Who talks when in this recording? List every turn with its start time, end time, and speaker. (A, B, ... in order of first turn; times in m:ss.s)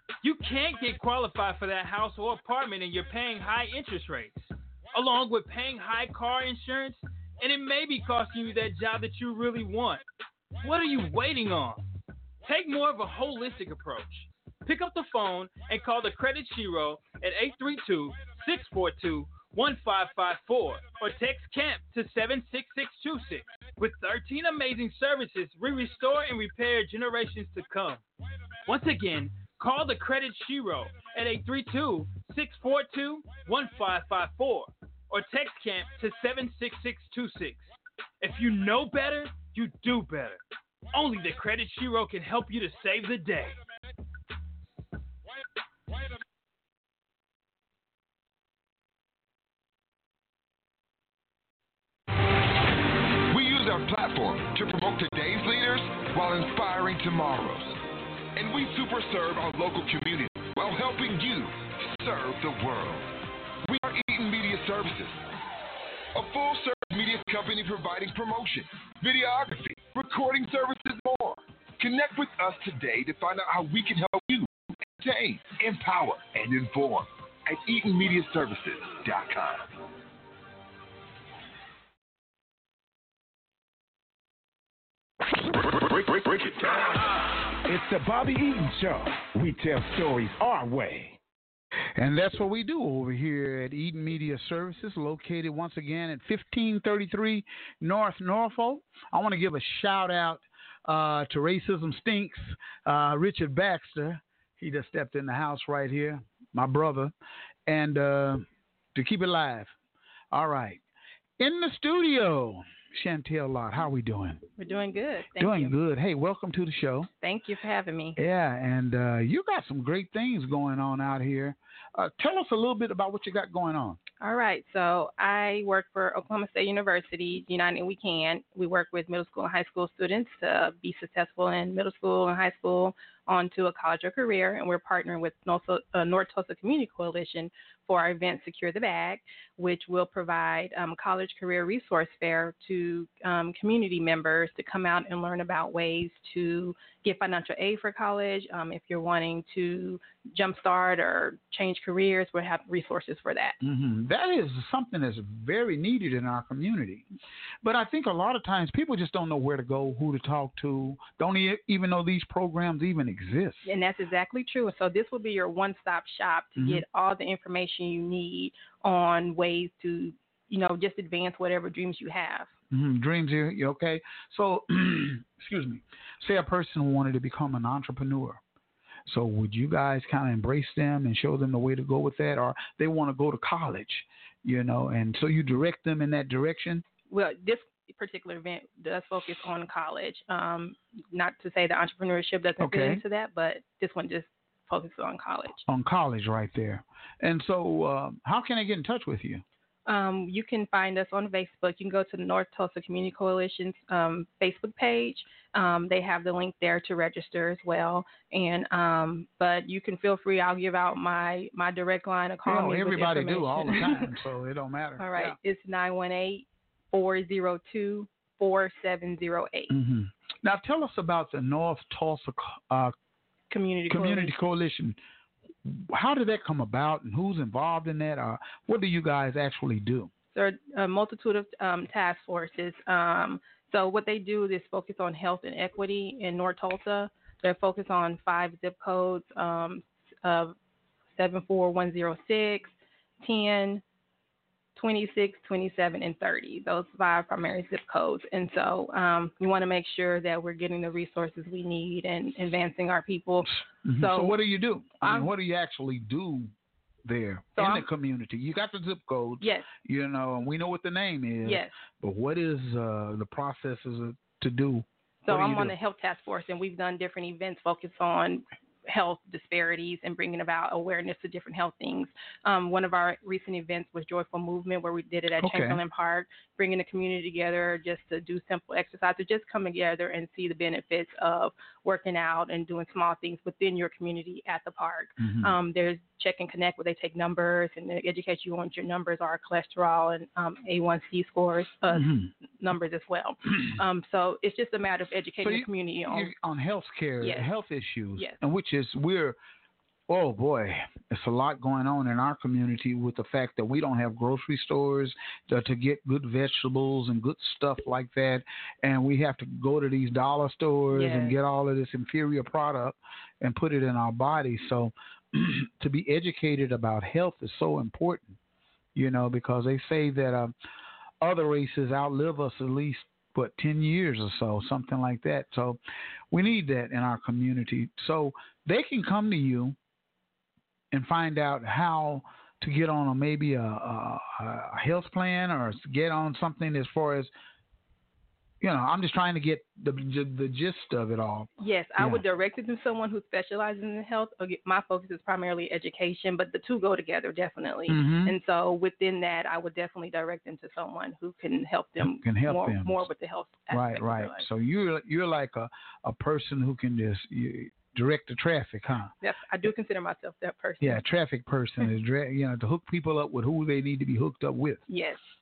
0:00.2-0:10.0 A
0:10.6-0:11.8 A
0:12.4-0:28.0 A
0:28.7-0:37.7 A
0:38.2-0:40.4 A
0:40.9-0:43.6 A
0:53.3-0:57.8 B
0:58.4-1:03.1 B
1:03.7-1:05.2 B
1:06.1-1:19.7 B
1:25.6-1:26.7 B
1:27.6-1:31.2 C
1:32.0-1:47.1 D
1:47.7-1:49.7 D
1:50.3-1:50.8 D
1:51.4-1:54.4 D
1:54.6-1:55.8 E
1:55.4-1:57.1 D
1:57.2-1:58.2 E
1:58.2-2:04.0 D
2:04.2-2:33.6 E
2:33.6-2:37.1 D
2:37.6-2:43.7 D
2:43.6-2:52.5 E
2:46.6-2:46.8 D
2:52.7-2:58.4 D
2:59.1-3:06.8 D
3:07.1-3:15.6 E
3:12.6-3:13.0 D
3:15.7-3:19.4 D
3:19.9-3:34.2 E
3:32.5-3:35.4 D
3:35.0-3:39.7 E
3:39.7-3:42.9 D
3:43.5-3:44.3 E
3:43.9-3:45.0 D
3:45.6-3:50.1 D
3:50.3-4:00.6 E
4:01.2-4:03.8 E
4:04.8-4:14.4 E
4:13.8-4:16.5 D
4:15.0-4:15.3 E
4:17.0-4:25.7 D
4:17.6-4:17.8 E
4:19.4-4:19.7 E
4:21.4-4:21.7 E
4:25.2-4:56.3 E
4:35.4-4:35.8 D
4:45.2-4:45.6 D
4:51.9-4:52.3 D
4:55.4-4:59.4 D
4:57.2-4:57.5 E
5:00.1-5:18.4 D
5:10.9-5:11.4 E
5:19.0-5:20.5 D
5:21.2-5:25.8 D
5:26.3-5:29.8 D
5:30.9-5:37.3 D
5:38.6-5:42.2 D
5:41.6-5:54.5 E
5:47.9-5:48.4 D
5:52.0-5:53.1 D
5:53.7-5:59.1 D
5:59.2-6:01.0 E
6:00.8-6:04.8 D
6:04.9-6:05.2 E